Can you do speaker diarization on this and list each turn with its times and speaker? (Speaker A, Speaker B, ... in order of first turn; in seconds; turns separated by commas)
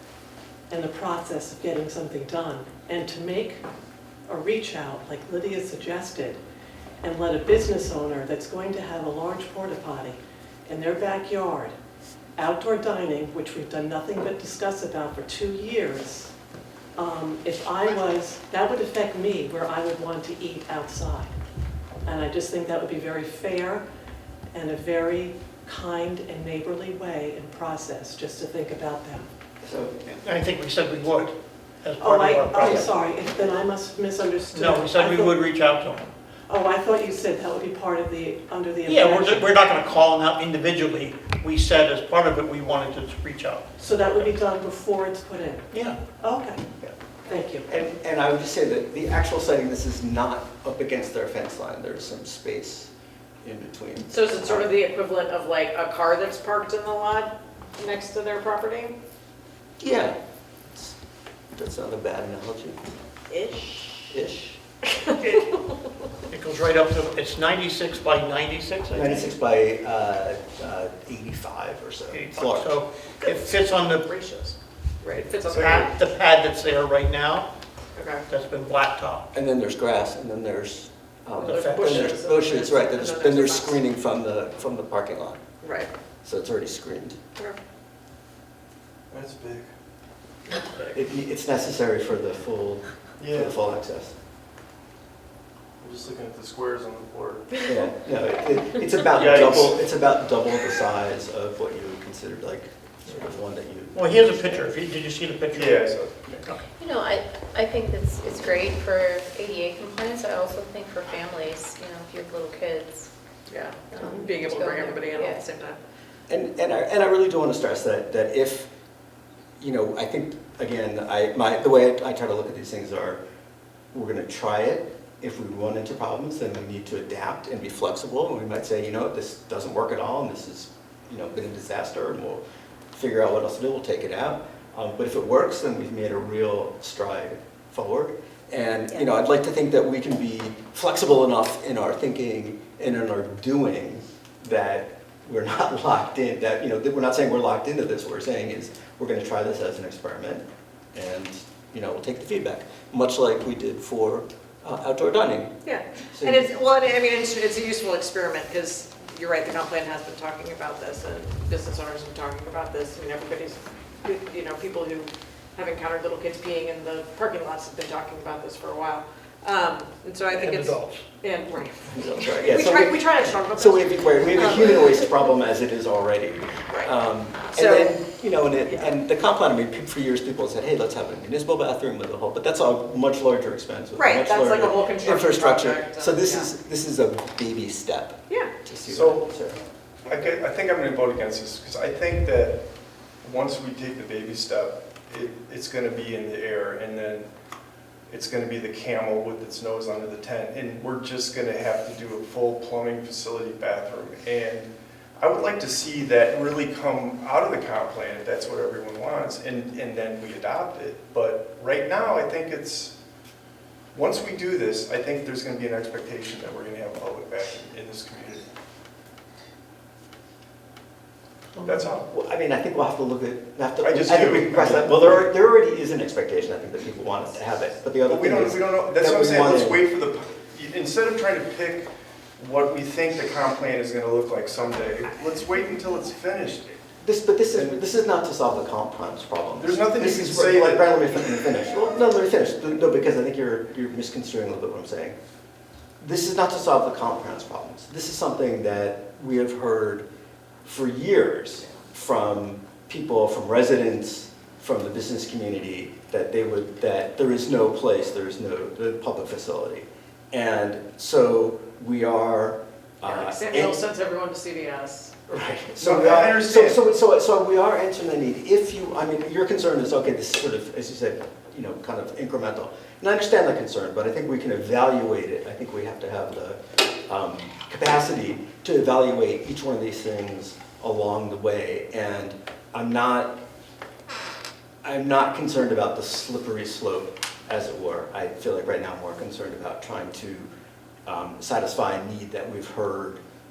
Speaker A: 0.7-3.6, Speaker A: 4.3-6.4, Speaker A: 7.0-11.7, Speaker A: 12.4-16.3, Speaker A: 16.9-21.3, Speaker A: 22.1-23.8, Speaker A: 24.5-29.3, Speaker B: 29.6-29.9, Speaker C: 30.1-32.8, Speaker A: 32.0-35.4, Speaker B: 32.6-32.9, Speaker C: 34.5-36.1, Speaker A: 36.5-39.5, Speaker C: 38.9-43.6, Speaker A: 43.8-45.7, Speaker C: 45.7-46.0, Speaker A: 46.2-46.6, Speaker A: 47.3-47.7, Speaker B: 47.7-52.9, Speaker B: 53.4-54.7, Speaker D: 54.1-59.0, Speaker B: 59.8-60.2, Speaker B: 61.5-62.8, Speaker D: 63.3-64.1, Speaker B: 64.1-64.6, Speaker D: 64.9-65.7, Speaker C: 66.3-69.3, Speaker B: 68.9-72.8, Speaker C: 72.1-74.1, Speaker D: 73.2-75.9, Speaker C: 75.1-77.5, Speaker D: 78.0-78.2, Speaker C: 78.3-79.3, Speaker B: 79.3-85.4, Speaker C: 81.4-82.1, Speaker D: 81.4-83.8, Speaker D: 85.6-85.9, Speaker B: 86.2-87.2, Speaker E: 89.1-89.7, Speaker B: 90.9-94.1, Speaker E: 93.2-93.6, Speaker E: 95.8-97.6, Speaker B: 97.6-104.7, Speaker E: 99.1-99.8, Speaker C: 103.9-106.7, Speaker E: 105.5-106.4, Speaker F: 106.8-113.1, Speaker D: 113.5-115.8, Speaker F: 113.9-115.4, Speaker B: 116.3-118.7, Speaker B: 119.6-123.2, Speaker B: 123.9-132.4, Speaker B: 132.9-155.6, Speaker D: 155.6-175.1, Speaker B: 156.1-156.5, Speaker C: 170.3-171.1, Speaker B: 171.9-189.6, Speaker D: 177.5-178.1, Speaker D: 178.6-178.9, Speaker D: 183.9-186.5, Speaker E: 188.9-189.3, Speaker E: 190.1-192.6, Speaker E: 193.2-197.3, Speaker E: 198.1-212.9, Speaker E: 213.9-218.4, Speaker C: 221.5-221.8, Speaker E: 221.6-222.1, Speaker B: 222.1-229.8, Speaker E: 223.8-225.2, Speaker E: 228.0-236.8, Speaker B: 237.0-245.2, Speaker E: 239.6-241.1, Speaker B: 246.0-250.1, Speaker B: 250.6-263.8, Speaker D: 263.0-265.1, Speaker B: 265.3-283.4, Speaker E: 265.8-266.8, Speaker B: 284.8-290.5, Speaker B: 291.1-293.2